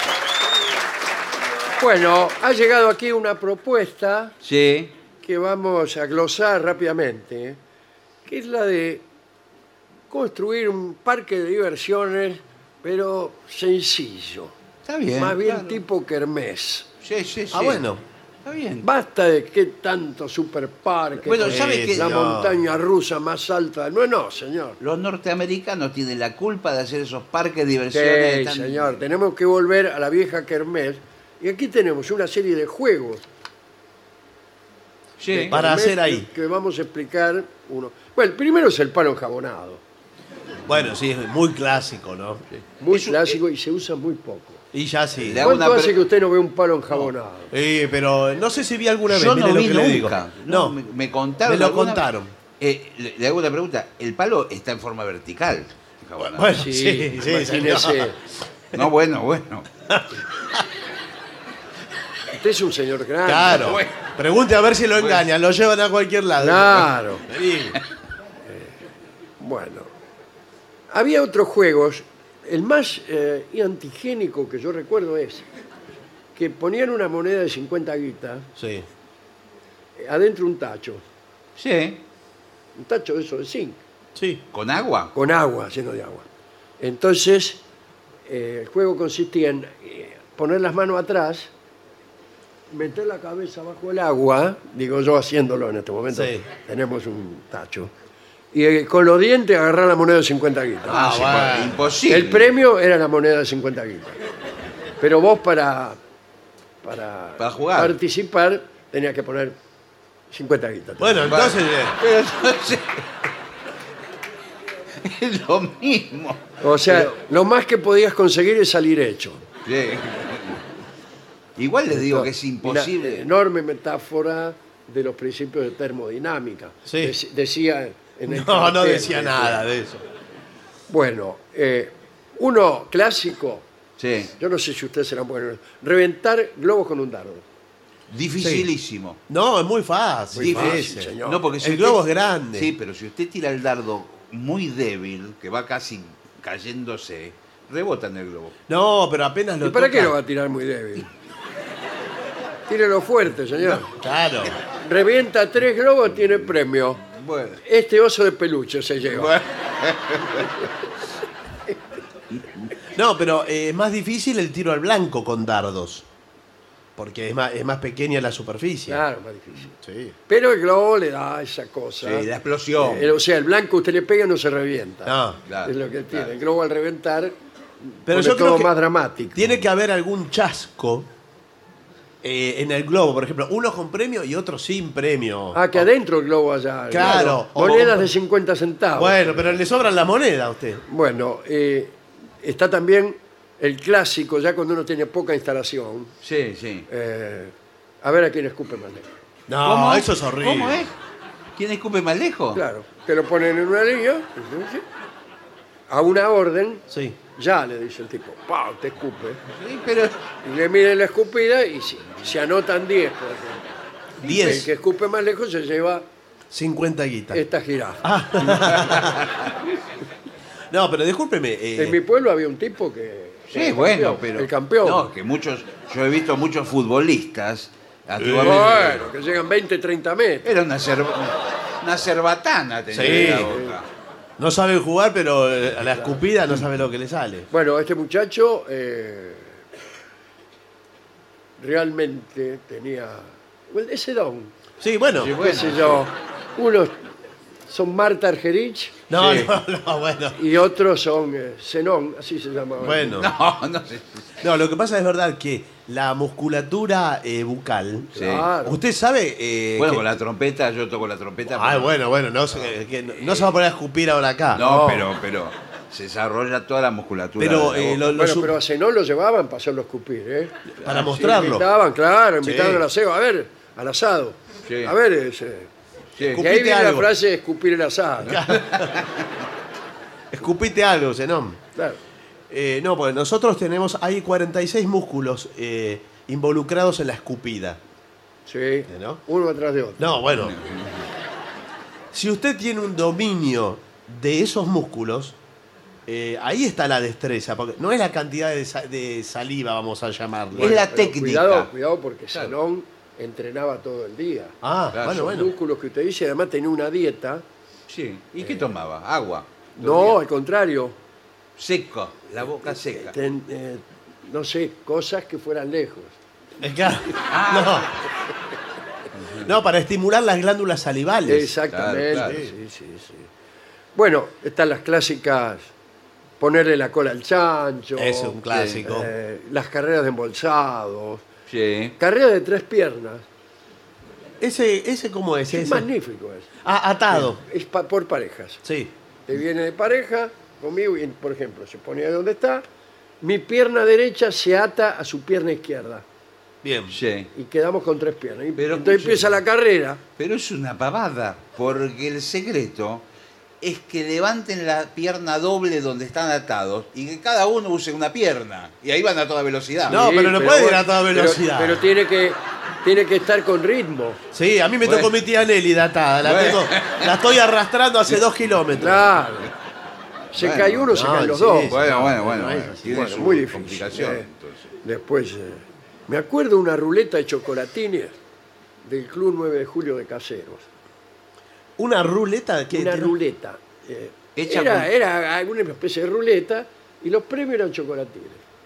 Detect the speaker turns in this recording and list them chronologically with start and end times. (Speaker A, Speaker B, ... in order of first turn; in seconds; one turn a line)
Speaker A: 1.8-4.3
Speaker B: 4.4-4.9
Speaker A: 5.2-7.6
Speaker A: 8.2-9.0
Speaker A: 10.1-14.5
Speaker B: 14.8-15.8
Speaker A: 15.2-16.9
Speaker B: 17.0-17.8
Speaker C: 17.5-18.0
Speaker B: 18.4-18.9
Speaker A: 18.8-24.8
Speaker B: 21.1-22.1
Speaker C: 21.4-22.6
Speaker B: 24.8-29.0
Speaker A: 27.9-33.2
Speaker B: 35.2-35.6
Speaker A: 35.3-39.8
Speaker C: 35.5-36.3
Speaker C: 40.7-42.4
Speaker B: 42.5-43.4
Speaker A: 42.8-44.6
Speaker C: 44.7-45.5
Speaker B: 45.2-46.0
Speaker A: 45.4-47.5
Speaker C: 47.5-50.8
Speaker B: 49.1-52.0
Speaker C: 51.4-52.3
Speaker B: 52.6-56.6
Speaker C: 56.3-58.1
Speaker A: 56.5-58.2
Speaker B: 58.7-59.7
Speaker C: 59.9-60.6
Speaker A: 62.3-63.8
Speaker C: 63.2-67.8
Speaker B: 63.5-64.0
Speaker B: 64.9-65.3
Speaker A: 66.4-67.2
Speaker A: 68.5-68.8
Speaker A: 69.4-69.9
Speaker A: 70.9-75.5
Speaker A: 76.3-78.5
Speaker C: 78.6-78.9
Speaker A: 80.0-81.0
Speaker B: 81.5-82.0
Speaker A: 82.8-83.8
Speaker C: 84.2-84.4
Speaker B: 84.5-85.1
Speaker A: 85.1-86.2
Speaker A: 86.8-87.6
Speaker A: 88.2-91.5
Speaker A: 92.7-97.9
Speaker C: 96.1-96.4
Speaker A: 98.5-101.0
Speaker C: 100.8-101.8
Speaker B: 100.9-102.5
Speaker A: 102.1-104.2
Speaker A: 105.0-106.0
Speaker A: 106.8-109.5
Speaker B: 107.4-108.0
Speaker A: 110.3-111.4
Speaker C: 111.0-112.0
Speaker B: 111.3-113.0
Speaker B: 115.0-117.1
Speaker A: 116.6-119.4
Speaker B: 119.6-120.6
Speaker B: 121.6-123.3
Speaker A: 121.9-129.7
Speaker C: 126.9-127.1
Speaker C: 128.3-130.0
Speaker A: 130.9-133.7
Speaker B: 134.0-134.3
Speaker A: 134.4-137.4
Speaker B: 138.1-139.2
Speaker C: 138.4-138.7
Speaker C: 139.3-142.7
Speaker A: 140.3-141.4
Speaker B: 140.4-148.6
Speaker C: 148.7-150.1
Speaker A: 149.6-151.1
Speaker A: 152.7-153.9
Speaker C: 153.7-154.6
Speaker A: 154.8-157.0
Speaker B: 157.0-157.6
Speaker A: 157.6-159.4
Speaker B: 159.1-160.5
Speaker C: 162.9-166.1
Speaker C: 167.0-169.0
Speaker A: 168.9-169.7
Speaker C: 169.8-170.2
Speaker A: 170.3-172.2
Speaker B: 172.0-173.1
Speaker A: 172.8-177.3
Speaker C: 175.0-175.4
Speaker B: 175.4-176.3
Speaker A: 178.0-179.6
Speaker C: 178.1-178.7
Speaker C: 179.3-181.1
Speaker C: 182.2-185.9
Speaker A: 185.5-189.6
Speaker C: 186.9-188.1
Speaker C: 188.9-190.8
Speaker A: 190.8-196.1
Speaker B: 196.2-196.9
Speaker A: 196.9-199.1
Speaker C: 199.5-200.8
Speaker B: 199.6-200.9
Speaker B: 201.6-202.6
Speaker A: 202.5-204.8
Speaker A: 205.9-206.8
Speaker C: 206.9-207.2
Speaker A: 207.3-209.4
Speaker B: 209.5-210.2
Speaker A: 210.4-216.1
Speaker C: 214.2-214.7
Speaker C: 216.5-217.4
Speaker A: 217.3-218.0
Speaker C: 218.0-219.2
Speaker B: 218.4-219.5
Speaker C: 220.7-222.0
Speaker A: 221.8-225.1
Speaker B: 223.5-229.1
Speaker C: 228.2-228.6
Speaker A: 228.3-230.6
Speaker B: 230.4-233.8
Speaker C: 232.9-233.6
Speaker A: 232.9-233.8
Speaker C: 234.4-237.5
Speaker A: 237.5-239.6
Speaker A: 241.6-244.5
Speaker C: 244.8-245.4
Speaker B: 245.2-246.0
Speaker A: 245.2-246.9
Speaker A: 247.7-249.0
Speaker C: 249.1-250.4
Speaker B: 249.1-249.5
Speaker A: 250.3-253.2
Speaker C: 252.8-253.3
Speaker B: 253.1-254.3
Speaker C: 254.4-260.0
Speaker A: 258.1-258.8
Speaker B: 258.1-258.5
Speaker B: 259.7-261.9
Speaker C: 261.5-264.6
Speaker B: 264.5-268.1
Speaker A: 264.5-265.1
Speaker C: 267.4-268.5
Speaker A: 268.1-275.7
Speaker C: 270.8-271.6
Speaker C: 272.4-272.8
Speaker B: 274.7-274.9
Speaker B: 276.2-276.4
Speaker C: 276.2-277.1
Speaker A: 276.3-278.4
Speaker C: 278.2-278.9
Speaker B: 278.5-279.1
Speaker C: 280.3-281.6
Speaker C: 282.5-287.8
Speaker A: 288.4-290.1
Speaker C: 288.9-289.2
Speaker C: 290.0-290.6
Speaker B: 290.3-291.1
Speaker C: 292.1-295.4
Speaker C: 296.1-300.8
Speaker A: 300.5-307.4
Speaker B: 300.5-301.7
Speaker C: 304.6-305.5
Speaker B: 304.9-305.3
Speaker B: 307.9-310.2
Speaker A: 308.4-308.7
Speaker A: 309.8-310.9
Speaker B: 311.6-313.1
Speaker A: 312.7-316.1
Speaker C: 316.6-318.0
Speaker B: 317.3-317.9
Speaker B: 319.2-319.5
Speaker C: 319.4-322.5
Speaker A: 321.2-323.3
Speaker B: 321.7-322.4
Speaker A: 323.9-325.7
Speaker A: 326.4-331.2
Speaker C: 327.9-329.1
Speaker B: 328.5-328.8
Speaker B: 331.5-331.9
Speaker A: 332.0-333.2
Speaker C: 334.4-335.9
Speaker A: 335.5-336.5
Speaker C: 336.6-337.4
Speaker A: 337.1-338.6
Speaker C: 338.6-338.9
Speaker A: 339.3-342.6
Speaker A: 343.2-346.0
Speaker C: 346.6-347.0
Speaker B: 346.9-347.3
Speaker A: 347.3-350.0
Speaker B: 348.6-349.4
Speaker B: 350.2-353.0
Speaker B: 353.6-360.0
Speaker A: 359.8-364.2
Speaker C: 359.9-361.8
Speaker C: 364.3-369.1
Speaker B: 364.8-365.1
Speaker B: 366.2-367.2
Speaker A: 368.7-369.5
Speaker A: 370.3-371.8
Speaker B: 370.4-370.9
Speaker C: 370.9-373.0
Speaker B: 371.6-374.6
Speaker A: 372.8-374.3
Speaker A: 374.8-378.2
Speaker A: 378.8-380.7
Speaker C: 381.8-383.1
Speaker A: 382.7-388.4
Speaker B: 384.4-384.9